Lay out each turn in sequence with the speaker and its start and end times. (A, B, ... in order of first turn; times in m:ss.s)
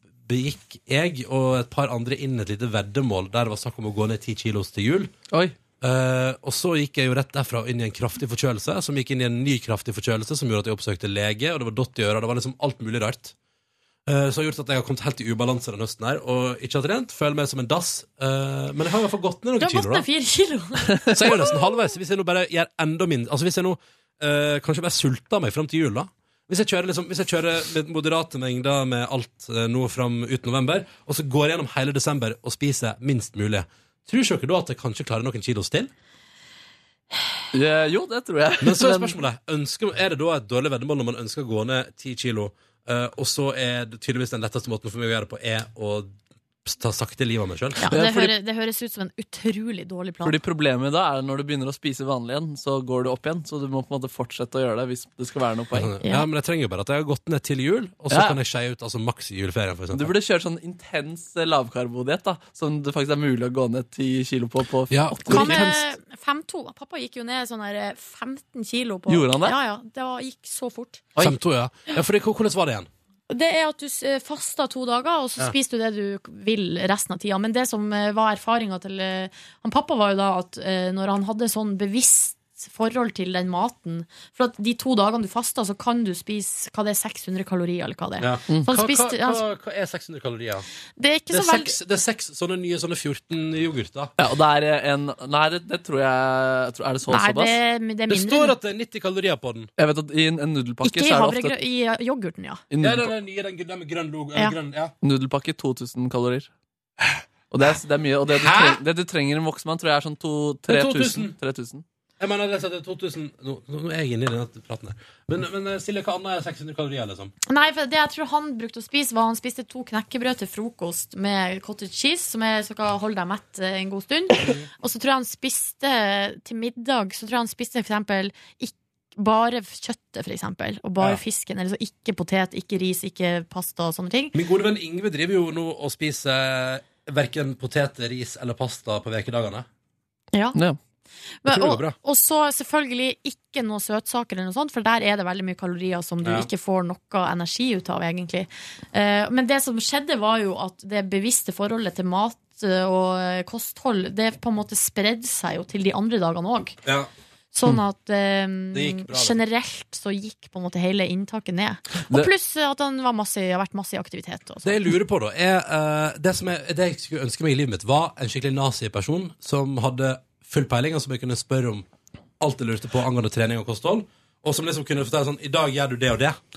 0:00.2-0:05.1 A
0:05.3-0:05.6 B
0:05.8-0:13.4 A
0:14.1-0:20.1 A
0:19.6-0:21.6 C
0:21.1-0:35.9 A
0:37.5-0:39.2 B
0:38.6-0:47.9 A
0:47.8-0:50.4 C
0:47.9-0:48.3 B
0:50.2-0:55.9 B
0:55.7-1:00.1 A
0:56.0-0:56.3 C
0:58.1-0:58.4 B
0:59.9-1:05.8 B
1:04.9-1:05.8 A
1:05.3-1:11.1 C
1:09.1-1:09.6 B
1:11.2-1:12.9 A
1:13.3-1:29.4 C
1:28.2-1:30.7 A
1:31.0-1:31.8 C
1:31.3-1:34.1 A
1:34.2-1:37.6 B
1:37.1-1:38.5 C
1:38.1-1:39.7 A
1:39.8-1:41.6 B
1:40.8-1:42.6 C
1:42.7-1:43.1 B
1:42.8-1:44.9 A
1:45.0-1:46.5 B
1:47.5-1:51.8 B
1:48.4-1:48.8 A
1:50.7-1:51.4 A
1:52.2-1:57.3 A
1:57.5-2:14.4 C
2:14.3-2:19.7 A
2:20.3-2:20.6 C
2:20.5-2:20.8 B
2:21.4-2:36.8 C
2:21.5-2:22.0 A
2:26.2-2:26.5 A
2:37.5-2:44.7 C
2:38.7-2:39.4 A
2:44.6-2:51.9 A
2:52.4-2:56.4 A